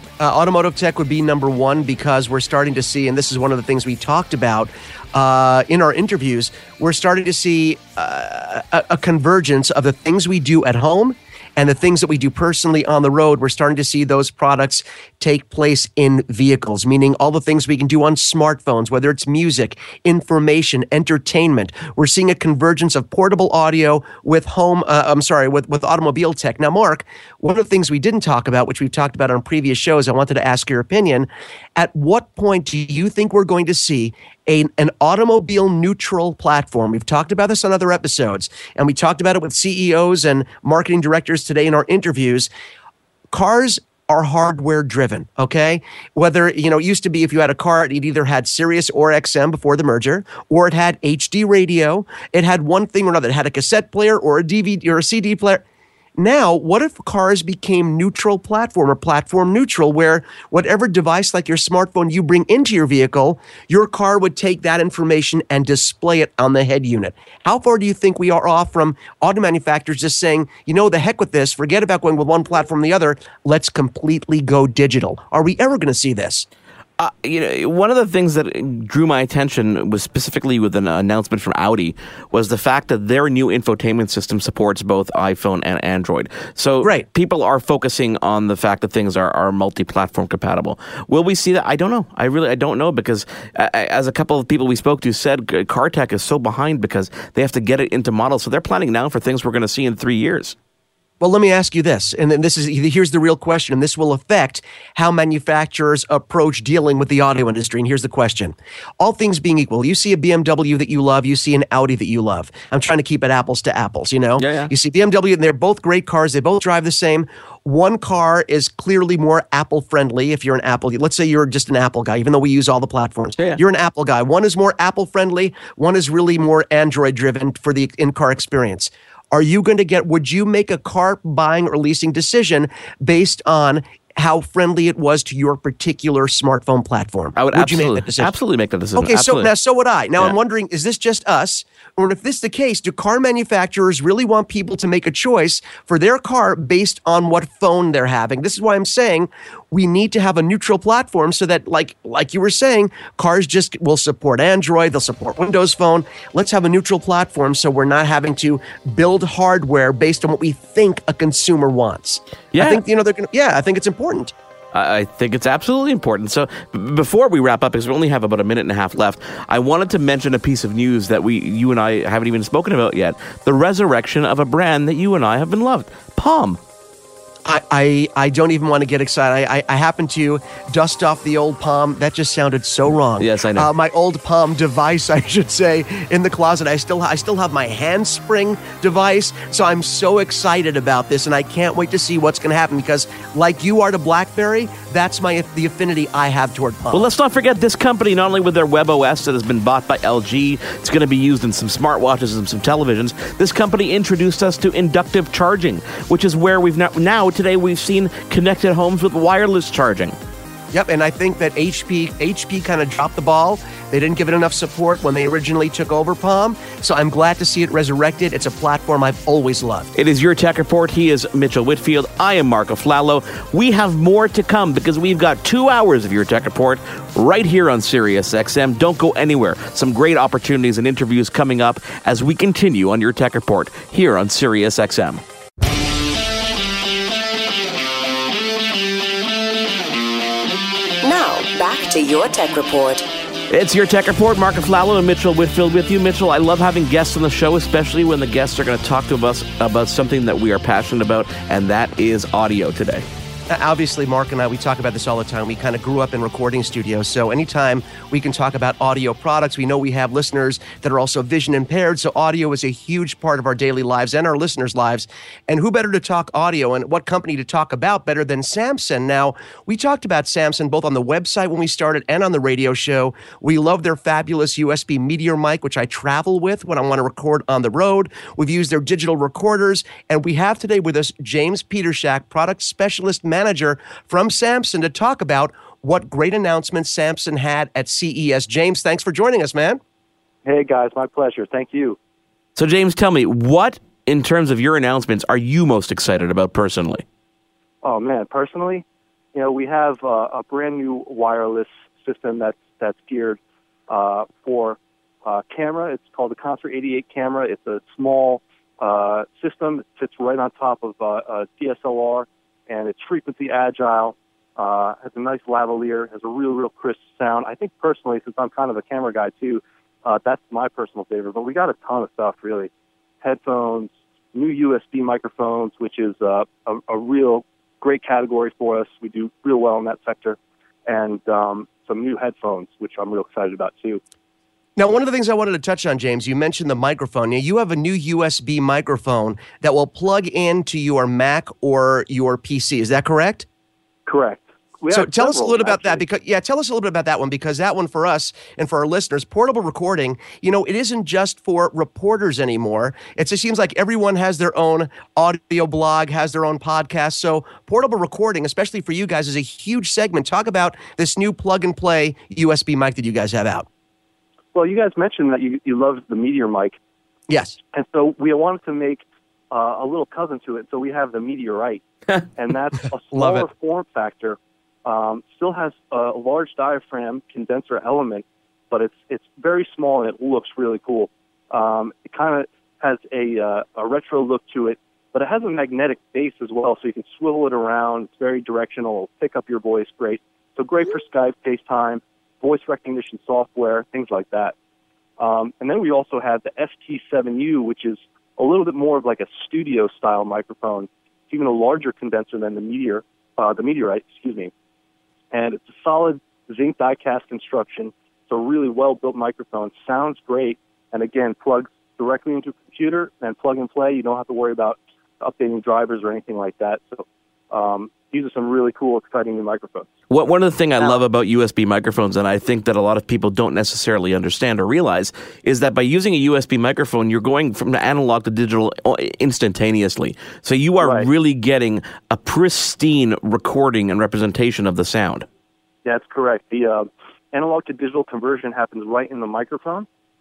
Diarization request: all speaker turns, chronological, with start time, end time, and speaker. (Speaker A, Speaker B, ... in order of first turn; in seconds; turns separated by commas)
Speaker A: 0.2-42.5, Speaker A: 43.3-55.6, Speaker A: 56.2-76.5, Speaker B: 77.0-100.5, Speaker A: 101.2-138.3, Speaker B: 114.4-114.7, Speaker B: 137.3-139.5, Speaker A: 138.9-164.3, Speaker B: 162.5-162.8, Speaker B: 164.7-176.6, Speaker A: 177.4-197.1, Speaker B: 183.2-183.7, Speaker B: 196.9-210.2, Speaker A: 210.7-219.9, Speaker B: 219.9-235.2, Speaker C: 241.0-243.1, Speaker B: 243.5-253.1, Speaker A: 253.5-289.8, Speaker D: 290.4-292.0, Speaker B: 292.6-297.0, Speaker D: 297.8-322.7, Speaker D: 323.2-334.0, Speaker A: 334.8-343.4, Speaker D: 344.1-346.0, Speaker A: 344.9-363.7, Speaker D: 364.5-366.8, Speaker A: 367.3-367.6, Speaker D: 367.7-371.8, Speaker D: 372.3-394.5, Speaker A: 373.1-373.4, Speaker D: 395.2-404.5, Speaker D: 405.3-420.0, Speaker B: 420.1-435.2, Speaker D: 430.8-431.1, Speaker D: 435.8-439.9